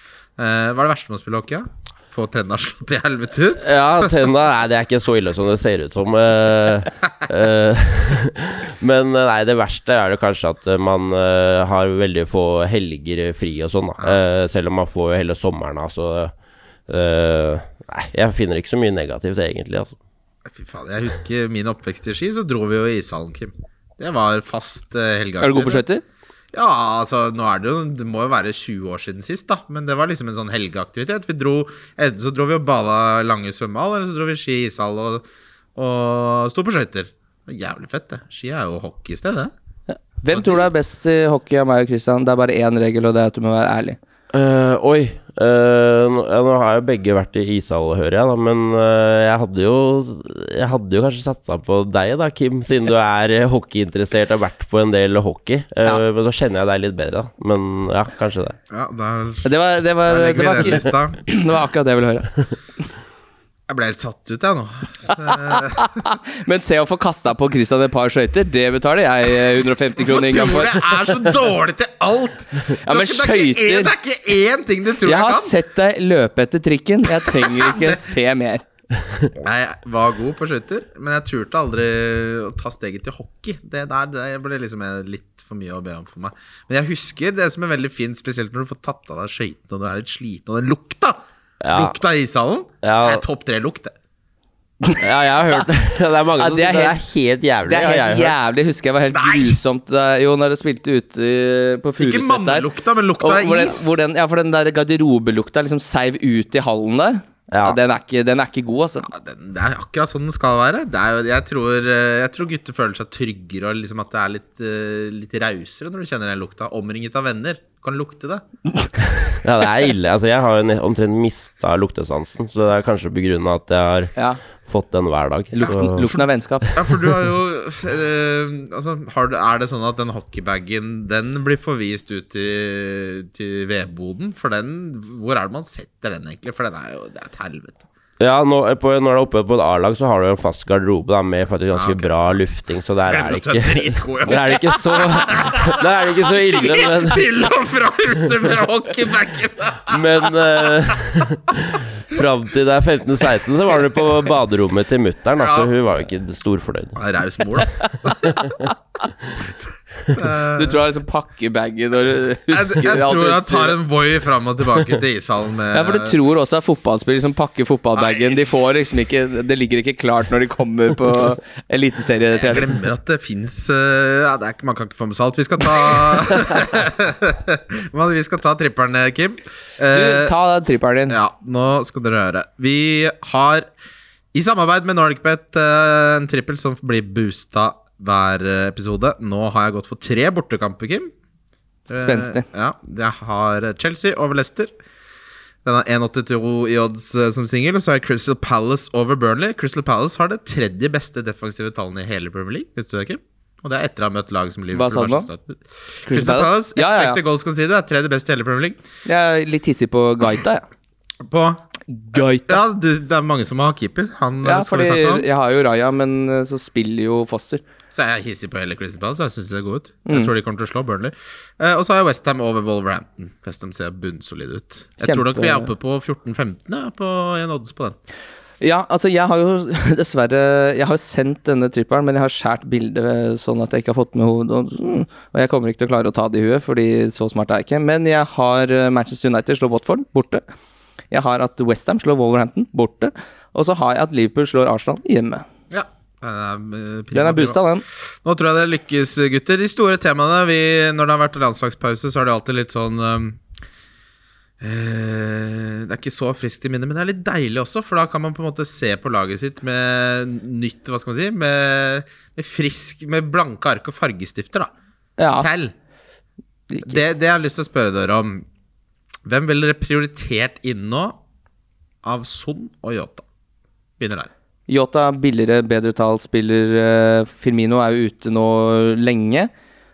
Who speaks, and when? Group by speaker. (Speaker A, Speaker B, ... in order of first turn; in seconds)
Speaker A: 0.4-4.1, 20.5-25.8, 26.5-35.2, 35.8-39.5, 40.3-40.7, 58.7-59.5, 60.1-61.2, 63.7-66.1, 70.0-75.5, 77.3-78.0, 79.4-91.2, 91.7-93.9, 99.1-99.6, 102.0-103.9, 109.1-118.4, 126.7-137.8, 141.7-142.4, 143.1-150.4, 155.4-155.7, 157.0-158.4, 160.1-160.8, 162.5-166.2, 168.0-168.4, 172.3-180.3, 181.1-183.7, 184.3-191.1, 191.9-194.7, 195.7-208.8, 211.2-211.6, 212.5-215.3, 217.9-228.0, 245.7-247.6, 248.2-253.4, 254.6-264.7, 265.4-265.7, 266.9-268.4, 269.3-271.2, 272.0-273.2, 274.0-274.3
Speaker B: 3.6-16.3, 16.9-20.0, 44.3-58.6, 91.6-92.0, 92.8-93.2, 95.0-98.3, 107.5-107.8, 119.4-126.2, 138.2-147.3, 149.9-157.0
Speaker C: 25.4-26.0, 39.9-44.0, 59.4-62.3, 65.3-70.8, 72.8-73.9, 75.0-78.6, 96.4-97.0, 97.7-102.7, 103.2-109.1, 125.5-126.7, 160.6-163.8, 165.7-172.7, 179.9-181.2, 191.9-192.4, 204.8-205.3, 206.1-207.2, 209.1-210.6, 211.9-212.6, 214.4-217.6, 225.0-225.7, 228.6-240.4, 241.1-245.4, 247.1-247.8, 265.2-265.5, 266.7-267.0, 274.7-279.5